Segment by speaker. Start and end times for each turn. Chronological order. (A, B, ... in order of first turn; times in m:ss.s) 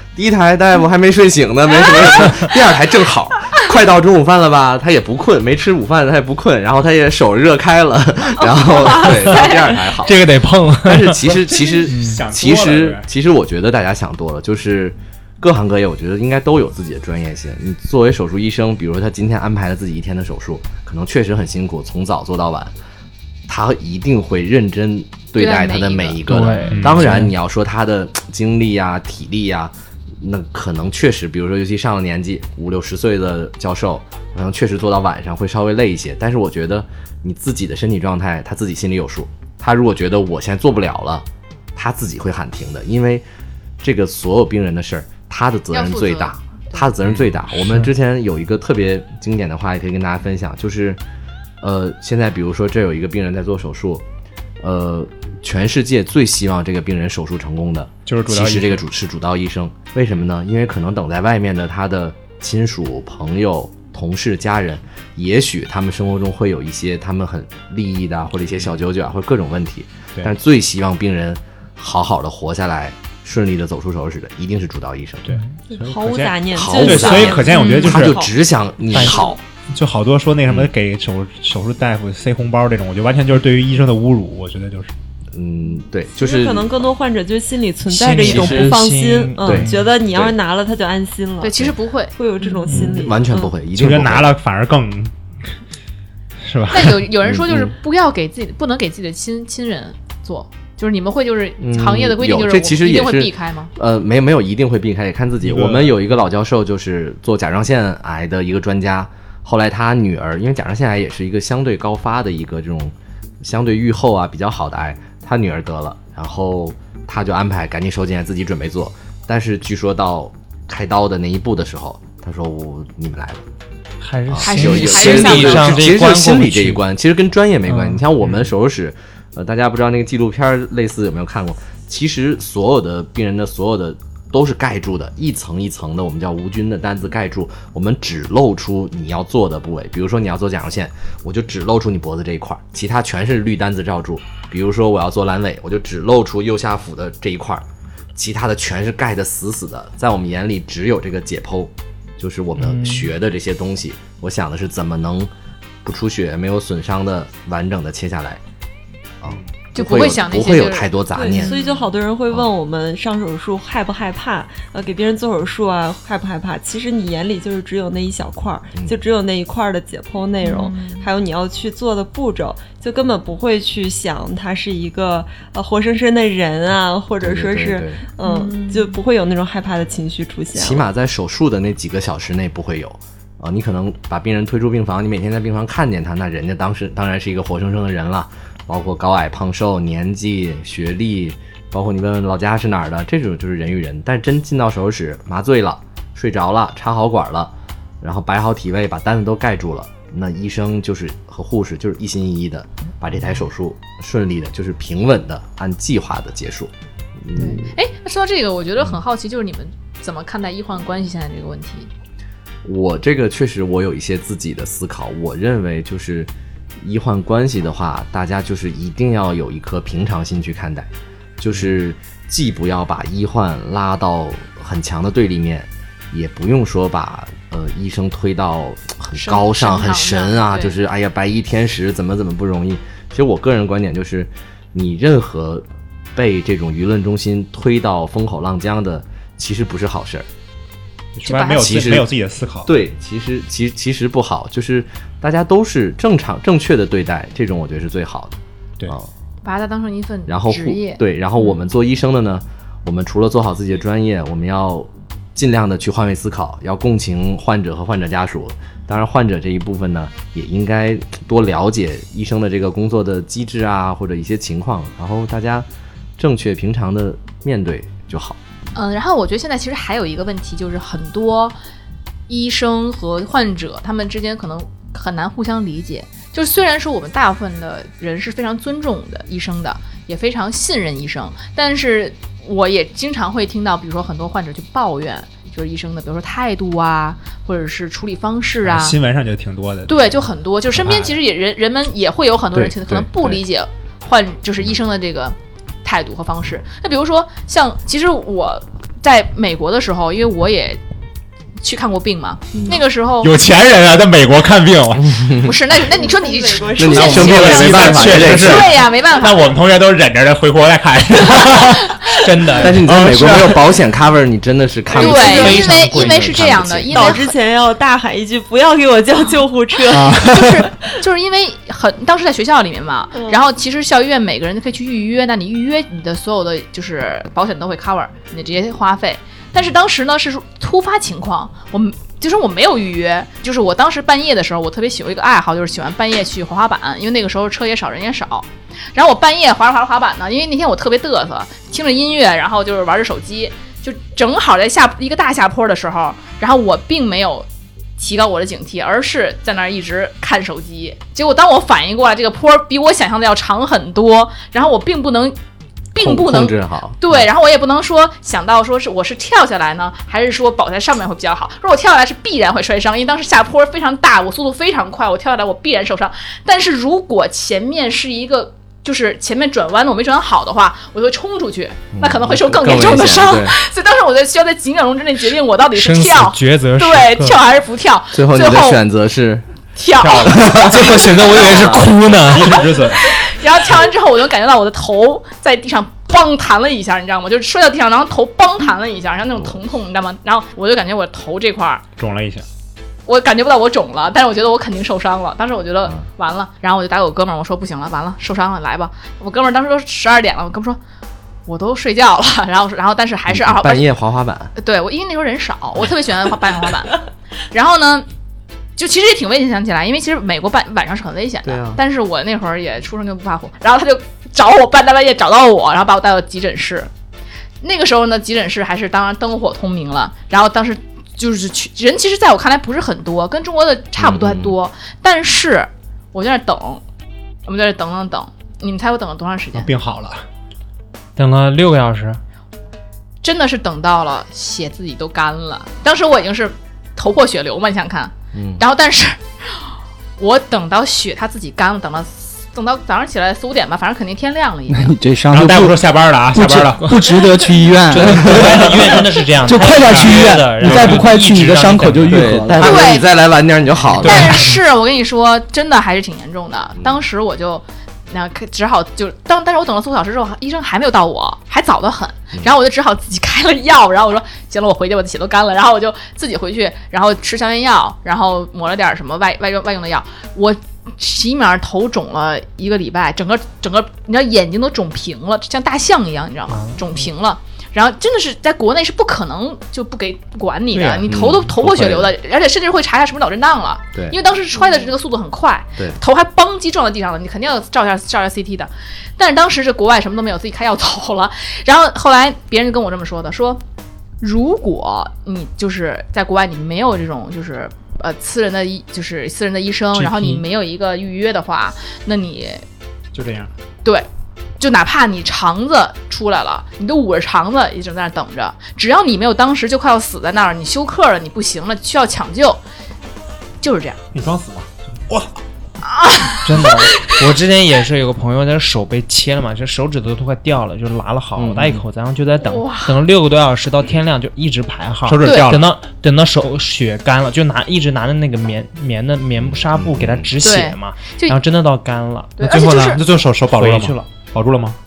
0:00.2-0:10.3 A
0:08.4-0:10.1 B
0:09.1-0:09.5 C
0:10.0-0:11.3 C
0:10.8-0:22.7 A
0:11.2-0:13.1 D
0:11.9-0:12.2 C
0:23.5-0:43.2 A
0:25.4-0:26.8 B
0:26.3-0:27.4 C
0:26.6-0:27.3 D
0:43.8-0:51.0 A
0:45.7-0:46.9 B
0:47.0-0:47.9 D
0:51.6-0:54.0 A
0:54.6-1:15.4 A
0:58.1-0:58.8 D
1:15.3-1:18.3 D
1:15.7-1:18.3 E
1:16.5-1:19.3 A
1:17.5-1:18.0 B
1:18.9-1:19.3 C
1:19.7-1:24.9 D
1:25.3-1:26.7 A
1:26.2-1:33.5 E
1:27.9-1:29.8 C
1:28.2-1:28.8 A
1:29.4-1:30.3 A
1:31.4-1:32.7 B
1:32.7-1:34.3 A
1:33.8-1:35.1 D
1:36.4-1:37.0 D
1:36.7-1:43.7 B
1:37.2-1:37.7 A
1:41.6-2:03.4 A
1:45.4-1:46.2 D
2:04.0-2:06.8 C
2:04.3-2:35.3 A
2:04.4-2:05.9 B
2:07.7-2:08.0 C
2:32.6-2:33.1 C
2:35.8-2:38.4 A
2:39.2-2:41.5 A
2:39.8-2:41.9 B
2:41.1-3:00.9 E
2:50.4-2:51.1 B
2:57.2-2:58.0 A
2:58.2-2:58.9 B
3:00.5-3:27.7 A
3:27.4-3:31.9 B
3:32.6-3:36.3 A
3:36.8-4:00.3 A
3:49.1-3:50.8 B
4:01.2-4:02.7 D
4:01.3-4:01.7 B
4:01.5-4:02.1 A
4:02.7-4:09.1 A
4:09.4-4:11.6 B
4:10.3-4:25.7 A
4:26.2-4:28.4 A
4:28.7-4:31.6 B
4:32.3-4:49.0 B
4:48.6-4:50.1 D
4:49.9-5:00.8 B
4:50.8-4:51.1 D
4:52.5-4:53.4 A
5:01.6-5:03.3 B
5:03.2-5:05.5 D
5:05.1-5:05.5 A
5:05.4-5:09.5 B
5:05.9-5:08.0 E
5:06.8-5:08.8 A
5:07.0-5:13.8 D
5:11.5-5:12.2 B
5:12.3-5:12.8 C
5:12.6-5:17.2 A
5:15.0-5:17.3 B
5:15.0-5:16.5 C
5:16.9-5:20.4 E
5:19.9-5:20.7 D
5:20.1-5:47.5 B
5:23.1-5:23.4 E
5:48.0-5:55.4 B
5:55.9-6:18.8 B
5:56.0-5:57.3 A
6:11.9-6:13.6 A
6:15.7-6:17.4 C
6:18.1-6:19.5 A
6:19.8-6:21.7 B
6:20.0-6:23.1 D
6:20.2-6:21.8 A
6:20.7-6:22.6 C
6:23.0-6:31.8 B
6:32.0-6:32.4 D
6:33.1-6:40.8 B
6:41.5-6:43.9 B
6:43.3-6:44.5 A
6:44.6-6:48.1 B
6:48.8-6:56.9 B
6:51.4-6:51.8 A
6:57.6-7:06.8 B
7:04.0-7:04.6 A
7:07.5-7:09.7 B
7:09.6-7:10.2 D
7:11.2-7:12.2 C
7:13.2-7:25.0 B
7:18.3-7:18.6 A
7:24.7-7:32.9 F
7:25.3-7:26.9 D
7:27.9-7:32.4 C
7:28.1-7:28.5 A
7:28.2-7:28.6 D
7:29.8-7:30.4 D
7:32.1-7:34.5 A
7:32.6-7:33.1 B
7:34.0-7:34.5 D
7:34.0-8:13.6 B
7:56.5-7:56.8 C
8:01.1-8:02.1 A
8:14.2-8:22.6 B
8:20.0-8:20.4 D
8:23.1-8:23.5 D
8:24.6-8:32.6 B
8:33.6-8:34.0 B
8:34.1-8:35.4 D
8:35.9-8:36.6 B
8:36.4-8:52.4 C
8:41.4-8:41.8 A
8:42.4-8:43.0 B
8:45.1-8:45.7 D
8:45.2-8:45.5 B
8:49.4-8:50.3 A
8:50.4-8:51.4 B
8:52.4-8:53.0 B
8:52.4-8:54.8 D
8:53.5-8:54.1 C